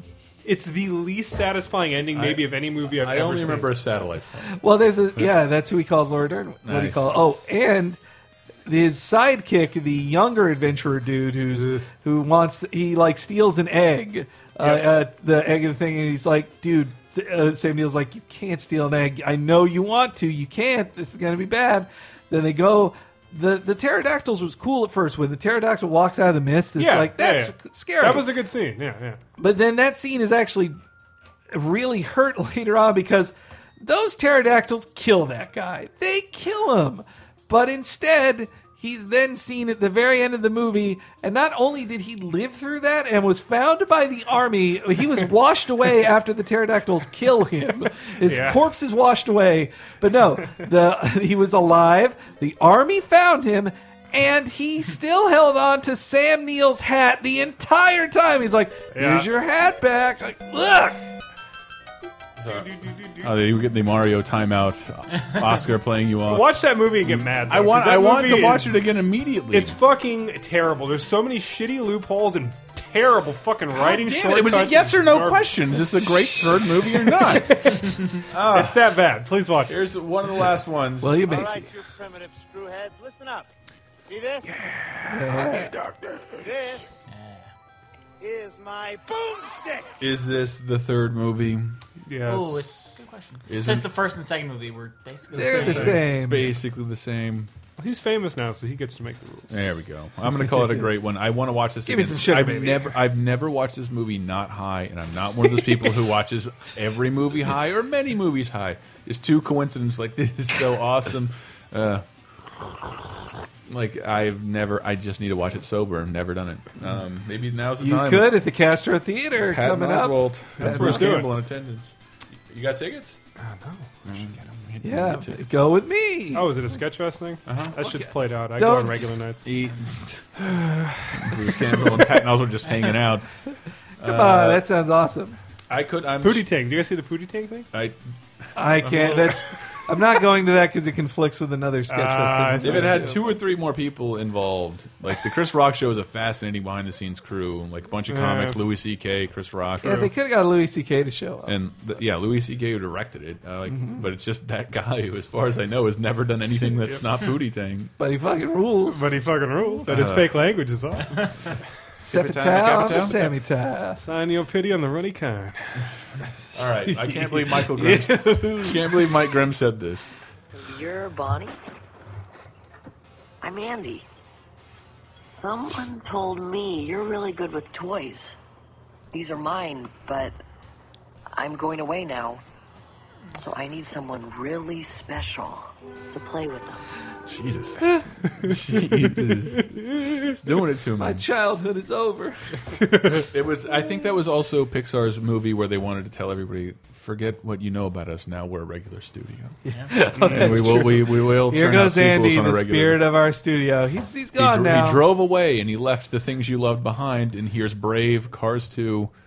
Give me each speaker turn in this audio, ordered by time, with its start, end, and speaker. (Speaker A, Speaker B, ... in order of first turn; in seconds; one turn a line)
Speaker A: 0.4-3.8
Speaker B: 2.1-4.5
Speaker C: 4.5-8.0
Speaker B: 6.7-7.3
Speaker C: 8.7-28.4
Speaker A: 11.5-11.8
Speaker A: 26.8-29.2
Speaker C: 29.4-30.8
Speaker C: 31.5-61.0
Speaker A: 48.2-48.6
Speaker A: 59.0-59.3
Speaker B: 62.4-69.8
Speaker A: 62.5-63.3
Speaker A: 66.3-68.9
Speaker A: 69.5-75.5
Speaker B: 73.7-78.8
Speaker A: 77.2-79.8
Speaker B: 79.7-81.2
Speaker C: 81.0-81.7
Speaker D: 81.3-83.5
Speaker D: 84.0-84.7
Speaker B: 84.4-86.4
Speaker C: 85.1-85.7
Speaker D: 86.4-87.1
Speaker E: 87.1-87.5
Speaker D: 88.2-90.0
Speaker B: 90.0-91.8
Speaker A: 92.0-92.7
Speaker E: 92.2-96.0
Speaker B: 93.5-93.9
Speaker C: 95.3-96.6
Speaker A: 95.5-96.0
Speaker B: 95.9-97.5
Speaker A: 97.8-99.5
Speaker B: 99.5-112.0
Speaker C: 101.9-103.0
Speaker B: 112.6-113.0
Speaker B: 113.7-118.4
Speaker C: 117.8-121.3
Speaker B: 119.4-121.9
Speaker A: 120.6-121.3
Speaker B: 122.5-123.2
Speaker A: 123.4-123.9
Speaker B: 124.0-125.6
Speaker C: 124.8-126.7
Speaker A: 126.3-129.5
Speaker B: 127.5-127.8
Speaker C: 127.8-129.1
Speaker B: 129.4-130.4
Speaker A: 130.5-131.0
Speaker B: 131.2-133.3
Speaker B: 134.0-134.6
Speaker C: 134.0-135.4
Speaker B: 135.7-136.4
Speaker A: 136.2-137.7
Speaker B: 137.7-138.0
Speaker C: 138.6-143.2
Speaker B: 138.8-139.8
Speaker A: 141.9-143.2
Speaker B: 142.6-150.0
Speaker A: 148.1-148.6
Speaker C: 149.8-151.6
Speaker B: 151.5-157.9
Speaker C: 153.7-154.1
Speaker C: 158.0-159.1
Speaker A: 158.9-161.6
Speaker B: 159.9-160.3
Speaker C: 162.0-164.1
Speaker B: 162.1-163.3
Speaker A: 164.0-165.6
Speaker B: 166.5-170.1
Speaker C: 167.1-169.1
Speaker F: 170.5-171.6
Speaker F: 173.4-174.1
Speaker F: 175.1-178.4
Speaker F: 179.1-180.4
Speaker F: 181.4-182.4
Speaker F: 183.3-186.9
Speaker B: 187.3-187.9
Speaker B: 188.4-191.2
Speaker C: 191.0-192.6
Speaker A: 192.8-193.2
Speaker B: 193.3-203.0
Speaker C: 199.9-205.1
Speaker A: 200.2-201.0
Speaker B: 204.4-209.1